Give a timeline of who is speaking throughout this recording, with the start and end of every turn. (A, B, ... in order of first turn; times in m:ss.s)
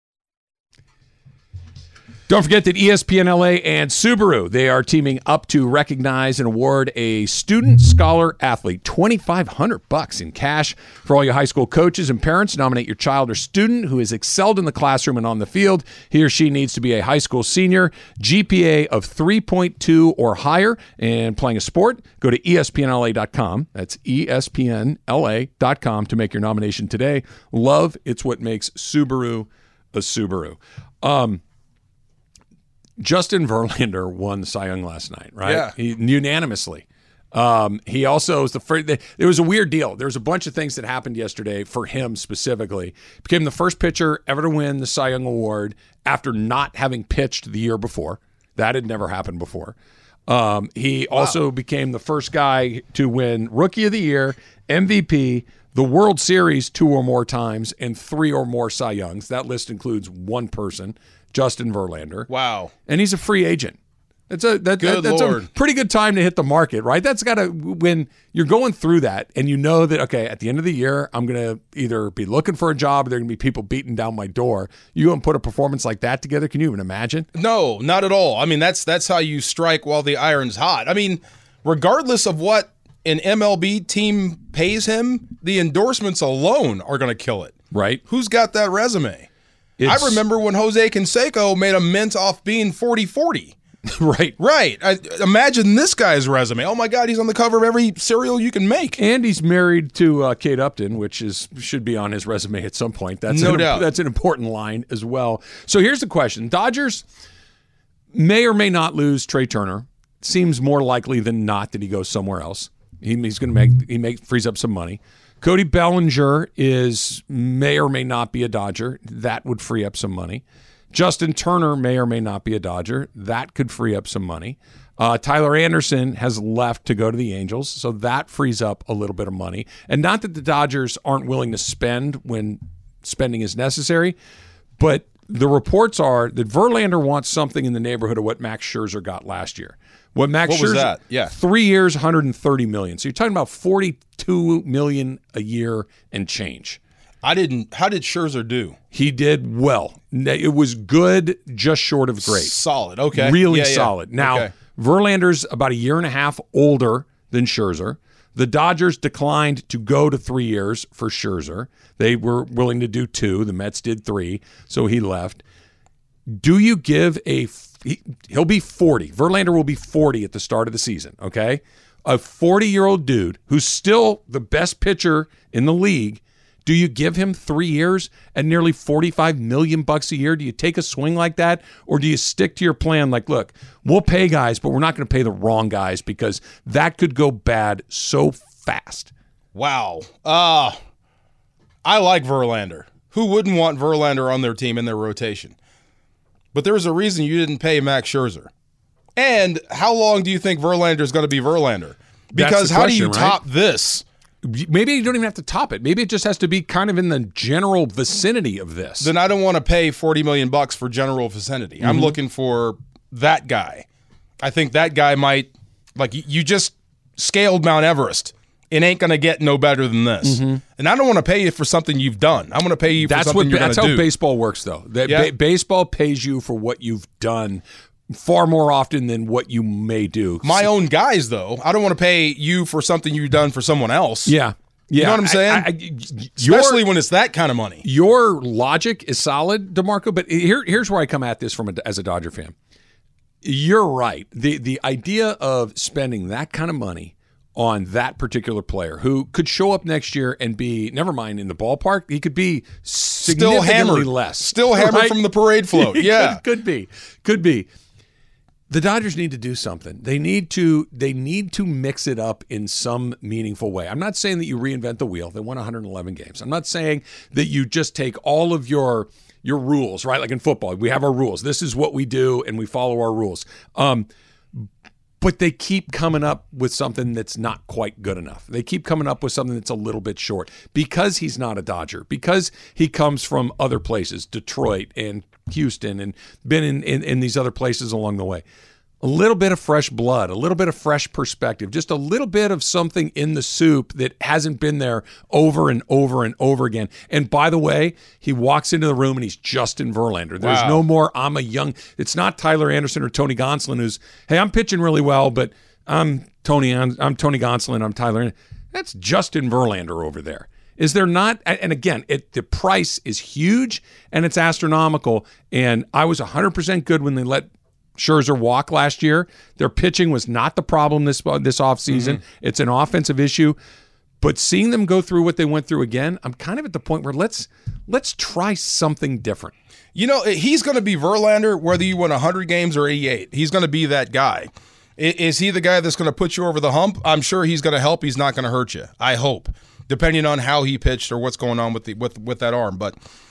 0:02.3-0:31.4 A
0:33.0-0:49.8 A
0:35.4-0:35.7 B
0:50.3-1:02.3 A
0:51.1-0:51.4 B
1:02.3-1:02.7 B
1:02.9-1:03.8 A
1:04.3-1:17.3 A
1:04.8-1:05.5 B
1:17.3-1:29.3 B
1:27.7-1:28.0 A
1:29.8-1:30.2 A
1:29.8-1:33.6 B
1:33.9-1:34.3 A
1:34.4-1:39.0 B
1:39.0-1:47.0 A
1:43.3-1:43.9 B
1:48.1-2:14.2 A
2:14.8-2:26.8 A
2:20.4-2:21.3 B
2:27.2-2:28.8 B
2:28.9-2:32.6 A
2:32.2-2:34.5 B
2:33.1-2:45.4 A
2:46.3-3:09.1 A
3:09.5-3:10.8 B
3:11.8-3:15.5 B
3:16.5-3:18.5 B
3:19.2-3:24.0 B
3:22.4-3:23.4 A
3:24.4-3:29.1 A
3:29.0-3:33.8 B
3:31.8-3:32.2 A
3:34.4-3:44.1 B
3:40.2-3:40.6 A
3:43.0-3:50.7 A
3:45.0-3:45.3 B
3:50.4-3:54.3 B
3:54.2-3:56.8 A
3:54.9-3:55.7 B
3:56.4-3:57.8 B
3:57.8-4:02.5 A
4:03.4-4:15.2 A
4:13.2-4:16.4 B
4:15.7-4:17.7 A
4:18.7-4:34.7 A
4:35.2-4:48.4 A
4:49.0-5:23.6 A
5:00.4-5:00.8 B
5:21.9-5:22.2 B
5:24.2-5:29.5 A
5:29.9-5:43.0 B